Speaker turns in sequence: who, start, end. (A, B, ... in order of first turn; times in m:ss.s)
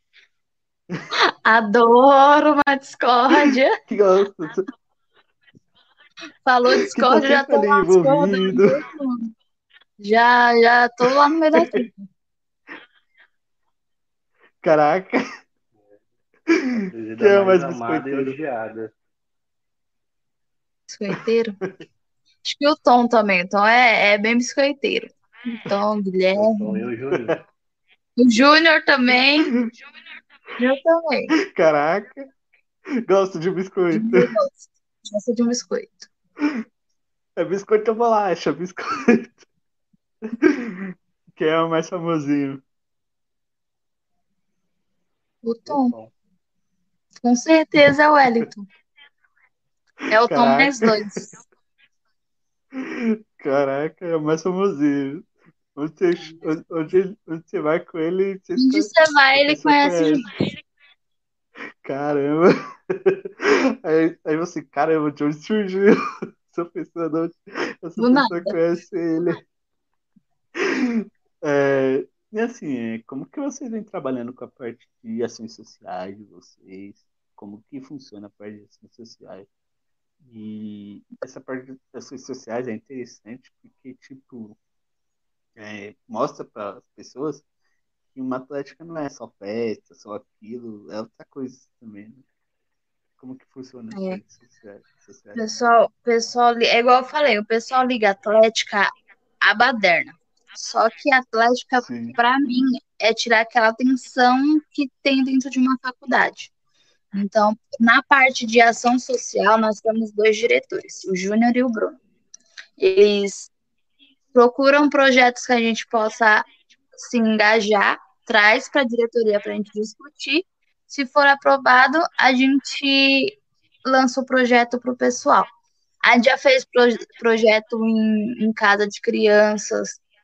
0:01.2-0:03.8 A
0:03.4-0:04.6 B
0:06.4-0:09.3 A
0:06.7-0:08.8 B
0:10.0-0:12.1 A
0:11.1-0:11.8 B
0:14.6-0:15.2 B
0:16.5-0:18.4 B
0:16.7-0:18.9 C
0:20.9-0:21.6 A
0:22.4-0:25.1 A
0:25.6-0:26.8 A
0:26.3-0:27.4 C
0:27.1-0:27.4 B
0:28.2-0:29.5 A
0:29.4-0:29.7 B
0:30.6-0:31.3 A
0:31.5-0:32.3 B
0:33.0-0:34.4 B
0:33.9-0:36.1 A
0:37.4-0:39.5 B
0:40.3-0:42.6 B
0:45.4-0:45.9 A
0:45.7-0:46.1 C
0:47.2-0:48.6 A
0:50.1-0:51.4 A
0:50.2-0:51.4 B
0:52.8-1:00.2 B
0:58.6-1:00.3 A
1:01.8-1:05.9 B
1:06.5-1:09.4 B
1:08.0-1:08.6 A
1:10.6-1:19.5 B
1:20.2-1:24.6 B
1:25.6-1:27.4 B
1:28.1-1:32.2 B
1:33.2-1:35.4 B
1:33.9-1:34.2 A
1:35.3-1:38.9 A
1:39.4-1:46.5 A
1:41.8-1:42.2 B
1:47.1-1:52.0 A
1:52.8-1:53.5 A
1:54.3-2:05.5 A
2:06.0-2:10.0 A